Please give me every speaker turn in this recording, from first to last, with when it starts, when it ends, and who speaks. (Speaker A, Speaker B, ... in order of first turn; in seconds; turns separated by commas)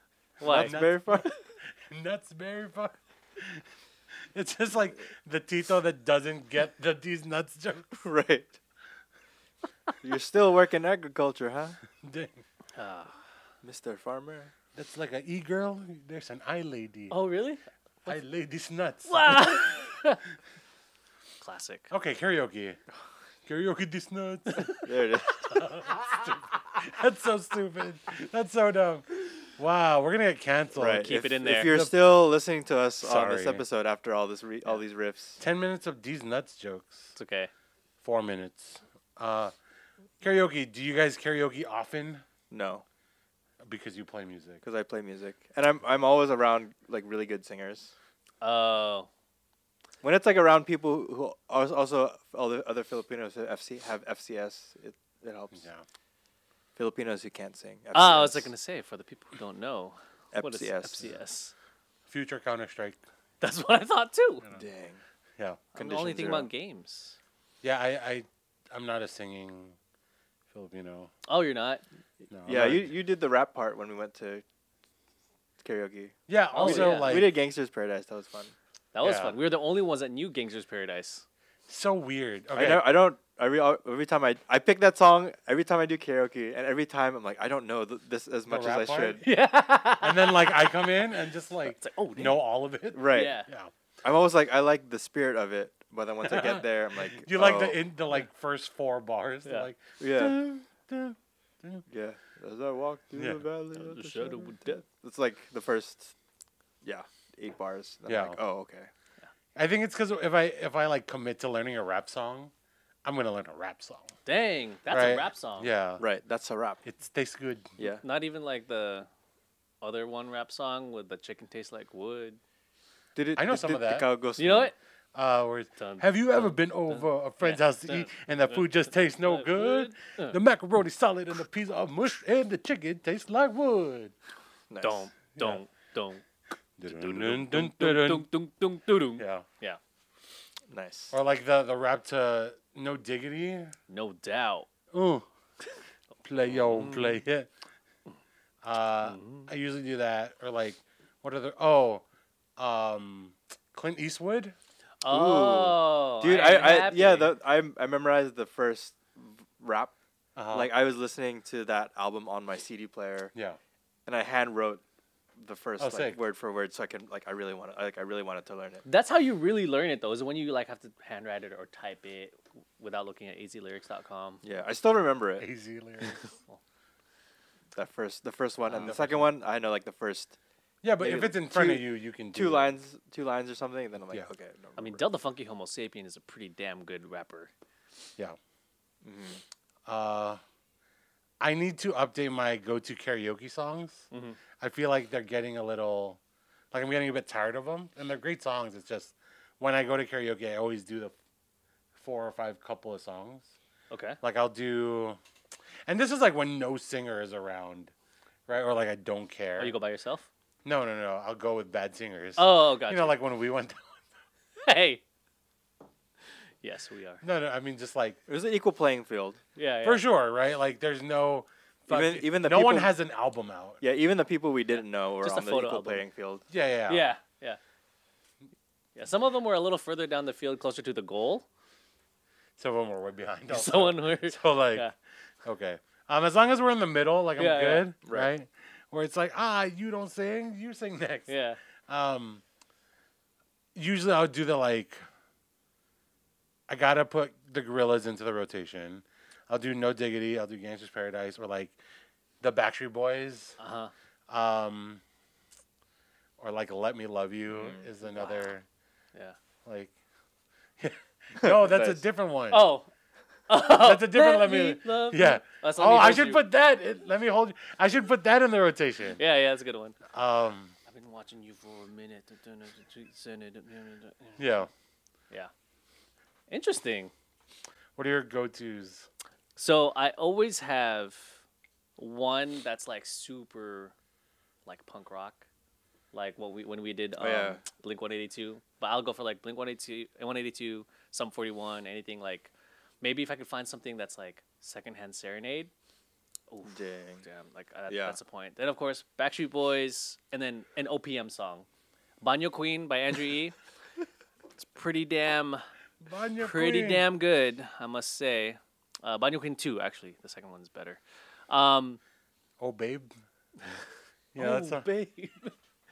Speaker A: 0.4-1.3, Speaker B: 0.4-1.3, Speaker C: 0.5-3.6, Speaker C: 4.3-8.0, Speaker B: 8.0-8.6, Speaker B: 10.0-11.8, Speaker C: 12.0-12.4, Speaker A: 12.7-13.2, Speaker B: 13.6-14.5, Speaker C: 14.7-17.2, Speaker A: 17.1-18.2, Speaker C: 18.0-19.9, Speaker A: 19.1-20.2, Speaker A: 21.4-21.9, Speaker C: 21.9-22.8, Speaker C: 23.4-24.8, Speaker A: 24.5-24.9, Speaker B: 24.8-25.4, Speaker C: 25.4-31.9, Speaker B: 30.7-35.4, Speaker A: 30.9-31.7, Speaker C: 33.0-33.6, Speaker C: 35.4-37.1, Speaker A: 37.1-37.5, Speaker C: 38.0-39.5, Speaker C: 40.2-42.2, Speaker B: 42.5-42.8, Speaker C: 43.6-44.6, Speaker B: 44.6-47.9, Speaker A: 48.4-49.1, Speaker B: 50.0-55.6, Speaker C: 55.5-55.8, Speaker B: 56.8-58.5, Speaker A: 57.9-61.5, Speaker B: 60.3-61.1, Speaker C: 62.1-63.0, Speaker A: 63.4-64.5, Speaker B: 64.5-65.0, Speaker C: 65.4-65.7, Speaker A: 65.7-67.2, Speaker B: 65.7-66.5, Speaker C: 67.6-69.8, Speaker C: 70.5-71.1, Speaker A: 71.3-71.8, Speaker C: 72.3-72.9, Speaker B: 72.5-74.4, Speaker B: 75.6-78.5, Speaker C: 76.3-77.3, Speaker A: 76.5-77.3, Speaker A: 78.9-81.2, Speaker C: 79.0-79.4, Speaker C: 81.7-82.9, Speaker B: 82.5-89.2, Speaker C: 88.5-89.2, Speaker A: 89.2-92.4, Speaker C: 90.0-93.7, Speaker B: 92.9-93.4, Speaker A: 93.1-93.5, Speaker B: 94.0-97.8, Speaker C: 96.2-101.8, Speaker B: 100.0-100.4, Speaker B: 101.9-106.1, Speaker C: 103.1-103.4, Speaker A: 103.8-104.7, Speaker B: 106.8-108.9, Speaker C: 108.1-108.4, Speaker C: 109.5-112.5, Speaker C: 113.0-114.1, Speaker A: 114.2-115.7, Speaker C: 114.9-116.0, Speaker B: 116.0-116.8, Speaker C: 116.8-117.7, Speaker B: 117.8-118.0, Speaker A: 118.0-119.1, Speaker A: 119.8-122.4, Speaker B: 123.2-124.7, Speaker C: 123.3-124.1, Speaker A: 124.4-124.7, Speaker C: 125.1-134.1, Speaker A: 125.8-130.4, Speaker B: 134.7-135.1, Speaker A: 134.8-136.2, Speaker C: 136.8-138.3, Speaker A: 136.8-139.8, Speaker C: 139.2-139.5, Speaker B: 140.7-141.1, Speaker C: 141.1-143.7, Speaker A: 143.9-144.7, Speaker C: 144.9-145.3, Speaker C: 146.2-147.5, Speaker A: 146.4-147.2, Speaker C: 148.6-152.0, Speaker A: 149.0-149.5, Speaker C: 152.6-154.5, Speaker A: 155.0-157.3, Speaker B: 155.1-159.9, Speaker C: 160.3-160.7, Speaker B: 160.5-163.3, Speaker C: 163.3-163.6, Speaker B: 164.1-164.8, Speaker B: 165.4-168.8, Speaker C: 165.8-166.2, Speaker A: 168.8-174.4, Speaker B: 174.4-175.4, Speaker C: 175.4-176.2, Speaker A: 176.2-176.6, Speaker B: 177.7-180.4, Speaker A: 178.7-178.9, Speaker C: 178.8-179.3, Speaker C: 180.8-182.8, Speaker B: 181.0-185.0, Speaker A: 184.8-187.5, Speaker B: 189.0-189.4, Speaker C: 189.8-190.4, Speaker C: 191.4-194.1, Speaker A: 194.1-194.4, Speaker C: 194.6-196.2, Speaker C: 196.7-201.1, Speaker C: 201.9-203.5, Speaker A: 203.9-204.2, Speaker C: 204.2-205.2, Speaker C: 205.8-207.9, Speaker C: 208.5-209.8, Speaker A: 209.6-210.3, Speaker C: 210.6-214.0, Speaker A: 212.4-213.2, Speaker A: 214.6-215.0, Speaker A: 216.6-217.2, Speaker C: 217.2-218.2, Speaker B: 218.3-219.4, Speaker A: 219.6-220.0, Speaker C: 219.8-223.8, Speaker B: 221.9-222.9, Speaker B: 223.8-226.4, Speaker A: 225.2-226.0, Speaker C: 226.5-227.0, Speaker A: 226.9-227.6, Speaker A: 228.9-231.4, Speaker C: 232.6-234.8, Speaker A: 233.5-234.9, Speaker C: 235.4-241.3, Speaker A: 237.4-237.9, Speaker B: 238.0-238.3, Speaker A: 241.3-241.6, Speaker C: 241.9-242.4, Speaker C: 243.7-245.0, Speaker C: 246.7-251.8, Speaker C: 252.4-253.6, Speaker A: 253.6-253.9, Speaker C: 254.3-255.0, Speaker C: 256.4-258.6, Speaker B: 257.5-257.8, Speaker A: 258.1-258.5, Speaker C: 259.6-259.9, Speaker C: 260.8-262.7, Speaker B: 261.3-262.0, Speaker A: 262.5-262.9, Speaker A: 263.5-266.4, Speaker C: 263.7-269.2, Speaker A: 269.2-270.0, Speaker C: 270.1-270.7, Speaker A: 270.9-274.6, Speaker C: 274.4-274.7, Speaker A: 276.5-277.1, Speaker C: 277.9-279.1, Speaker A: 279.6-281.4, Speaker A: 282.0-283.9, Speaker A: 284.6-285.4, Speaker A: 286.1-295.7, Speaker B: 287.2-287.6, Speaker A: 296.5-301.6, Speaker B: 296.6-297.2, Speaker B: 297.9-298.2, Speaker A: 302.2-303.6, Speaker A: 304.6-305.6, Speaker C: 306.0-307.1, Speaker A: 306.4-312.0, Speaker C: 312.6-313.1, Speaker C: 314.3-314.9, Speaker A: 314.4-315.5